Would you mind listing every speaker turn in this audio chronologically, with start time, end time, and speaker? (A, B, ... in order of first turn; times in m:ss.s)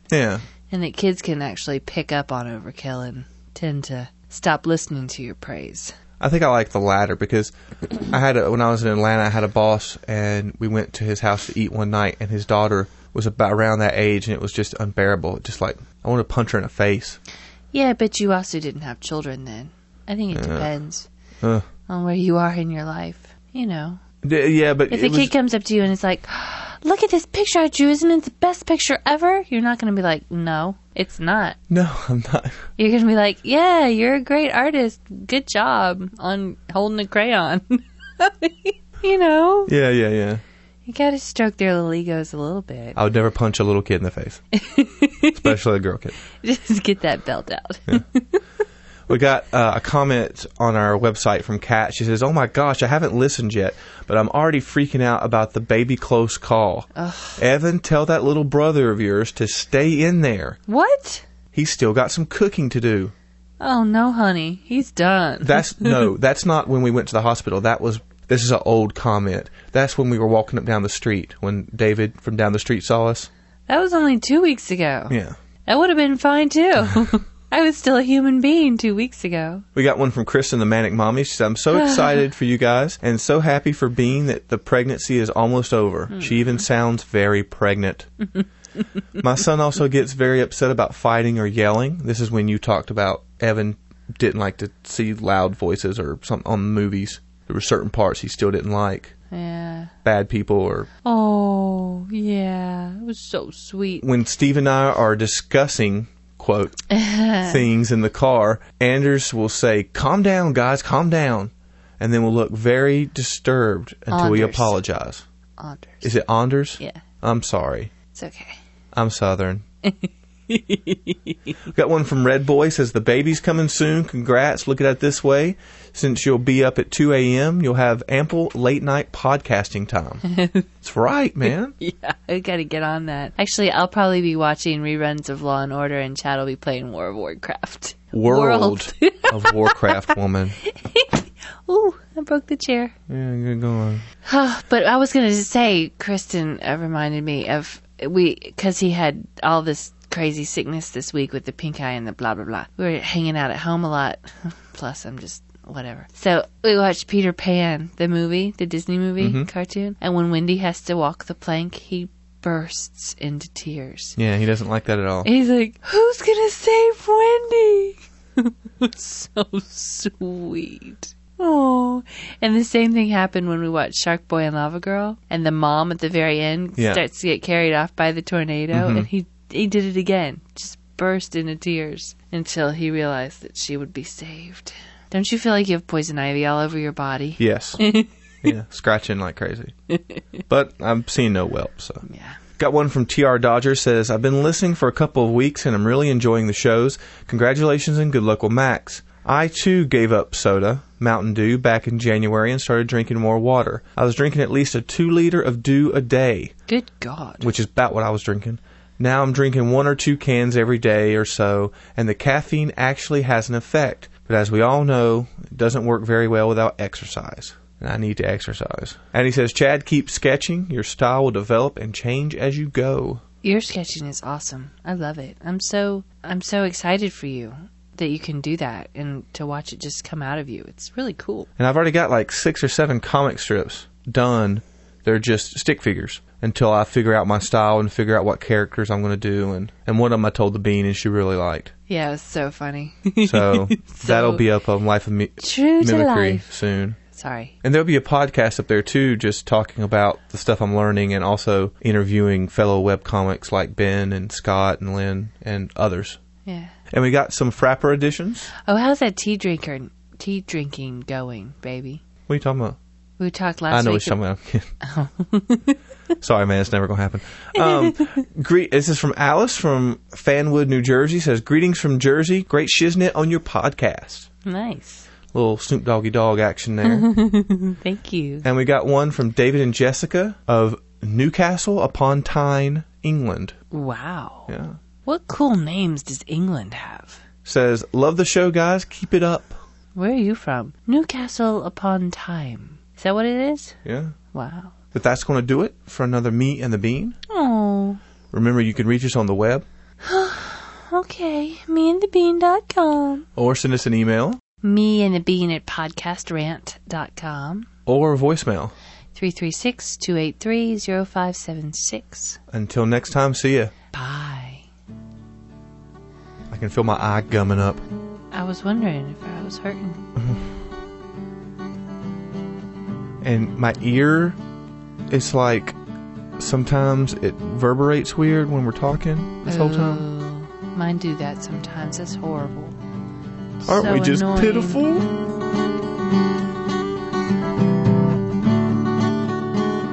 0:00.1-0:00.4 A
0:00.7-0:05.9 B
0:06.2-0:17.2 A
0:17.7-0:21.1 B
0:20.3-0:20.7 A
0:21.9-0:24.0 B
0:24.2-0:25.3 A
0:24.9-0:31.6 B
0:31.7-0:32.6 A
0:32.8-0:39.7 B
0:39.7-0:40.4 A
0:40.8-0:43.0 B
0:43.0-0:44.4 A
0:44.5-0:45.6 B
0:45.3-0:46.2 A
0:46.3-0:48.4 B
0:49.1-1:00.6 A
0:56.9-0:57.4 B
1:00.7-1:01.2 B
1:01.5-1:03.1 A
1:03.6-1:06.1 B
1:05.4-1:13.3 A
1:13.7-1:19.6 B
1:15.1-1:15.3 A
1:19.7-1:28.1 A
1:21.7-1:22.2 B
1:26.1-1:26.6 B
1:29.2-1:39.1 A
1:39.3-1:39.9 B
1:40.0-1:40.9 A
1:41.0-1:44.0 B
1:44.0-1:46.8 A
1:46.9-1:47.6 B
1:47.4-1:55.2 A
1:54.1-1:54.8 B
1:55.6-1:56.2 B
1:56.0-1:57.9 A
1:58.1-1:58.6 B
1:58.9-1:59.6 A
1:59.8-2:01.3 B
2:01.7-2:10.2 A
2:10.3-2:10.6 B
2:10.8-2:11.7 A
2:11.8-2:22.9 B
2:18.1-2:20.6 A
2:23.1-2:24.0 A
2:24.2-2:44.2 B
2:39.2-2:39.5 A
2:44.2-2:45.3 A
2:45.2-3:08.2 B
2:56.8-2:57.0 A
2:58.7-2:59.1 A
3:07.4-3:07.8 A
3:08.4-3:09.7 A
3:10.5-3:12.0 A
3:12.0-3:12.4 B
3:12.6-3:26.5 A
3:26.7-3:27.5 B
3:27.4-3:43.2 A
3:43.4-3:51.5 B
3:51.6-4:01.7 A
4:01.9-4:04.4 B
4:03.2-4:07.0 A
4:05.4-4:06.5 B
4:07.1-4:07.5 B
4:07.6-4:16.2 A
4:16.4-4:16.7 B
4:16.9-4:18.5 A
4:18.6-4:22.0 B
4:22.3-4:22.8 A
4:23.2-4:24.2 B
4:23.7-4:24.7 A
4:24.8-4:25.8 B
4:26.2-4:34.3 A
4:27.5-4:28.2 B
4:34.4-4:35.1 B
4:35.3-4:37.1 A
4:36.8-4:38.4 B
4:38.4-4:43.5 A
4:43.7-4:44.5 B
4:44.5-4:44.8 A
4:45.0-4:47.2 B
4:47.4-4:49.6 A
4:49.9-4:53.7 B
4:53.8-4:54.1 A
4:54.3-4:54.7 B
4:54.9-4:57.2 A
4:57.3-4:58.0 B
4:58.3-4:59.6 A
5:00.0-5:03.2 B
5:03.4-5:04.4 A
5:04.6-5:07.7 B
5:07.8-5:08.7 A
5:09.1-5:12.4 B
5:12.5-5:13.7 A
5:13.9-5:14.6 B
5:16.5-5:17.8 A
5:18.3-5:20.0 B
5:20.2-5:20.4 A
5:23.2-5:24.4 A
5:25.1-5:25.8 A
5:26.4-5:30.0 A
5:29.4-5:32.8 B
5:33.6-5:34.9 B
5:33.6-5:35.1 A